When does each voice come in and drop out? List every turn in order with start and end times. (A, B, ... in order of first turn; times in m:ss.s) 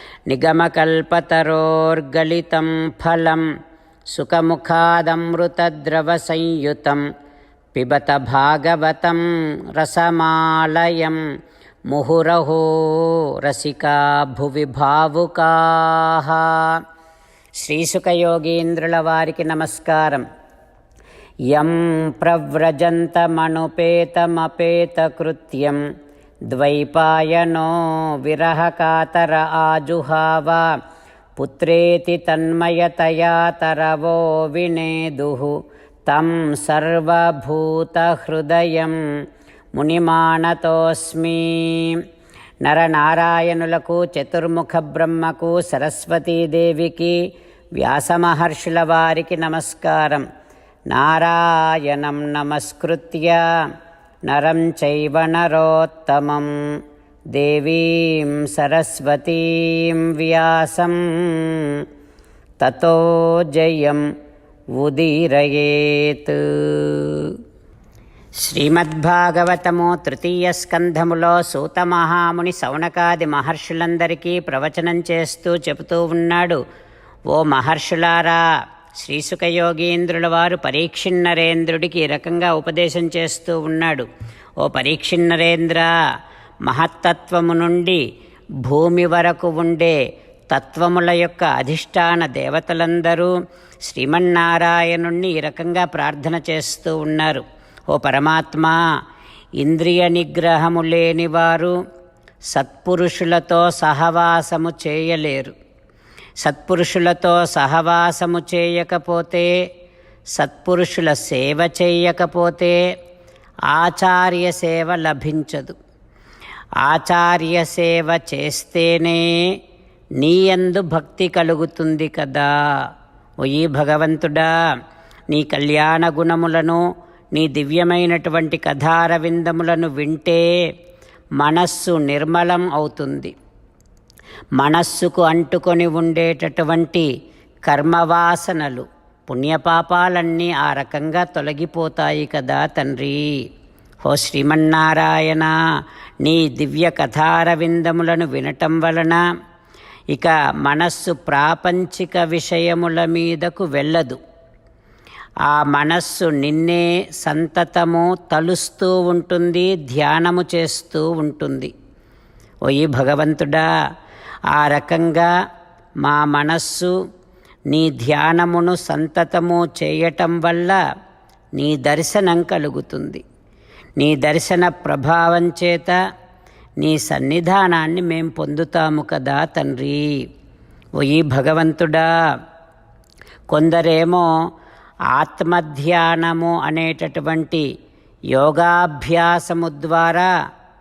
0:00.3-0:03.4 A
0:04.1-0:07.0 A
0:07.7-0:09.2 A
0:09.8-0:11.2 A
0:11.9-0:16.8 A
0:17.6-0:20.2 A
0:21.5-0:25.8 A
0:26.5-0:30.7 A
0:31.4-0:35.5 A
0:36.1-0:39.0 A
0:39.8-0:42.0 A
0:42.6-0:47.2 A
0:47.8-0:50.2 A
0:50.9-0:53.4 A
0:54.3-0:56.5 A
0:57.3-1:01.8 A
1:02.6-1:04.0 A
1:04.8-1:07.3 A
1:08.4-1:16.6 A
1:17.3-1:18.4 A
1:19.0-1:24.1 A
1:24.6-1:25.9 A
1:26.7-1:28.0 A
1:28.7-1:30.0 A
1:30.5-1:33.3 A
1:33.9-1:38.8 A
1:39.6-1:41.7 A
1:42.5-1:45.5 A
1:46.4-1:49.5 A
1:50.4-1:52.8 A
1:53.7-1:55.8 A
1:56.8-1:59.3 A
2:00.2-2:02.5 A
2:03.4-2:04.5 A
2:05.3-2:06.8 A
2:07.3-2:10.4 A
2:11.4-2:13.3 A
2:14.6-2:17.1 A
2:17.7-2:23.2 A
2:24.0-2:25.5 A
2:26.2-2:29.2 A
2:30.1-2:34.2 A
2:35.5-2:41.7 A
2:42.7-2:43.7 A
2:44.5-2:45.3 A
2:46.0-2:46.9 A
2:47.7-2:50.8 A
2:51.6-2:53.2 A
2:54.0-2:56.0 A
2:56.8-3:00.1 A
3:01.0-3:02.1 A
3:03.5-3:04.3 A
3:05.1-3:07.7 A
3:08.3-3:10.3 A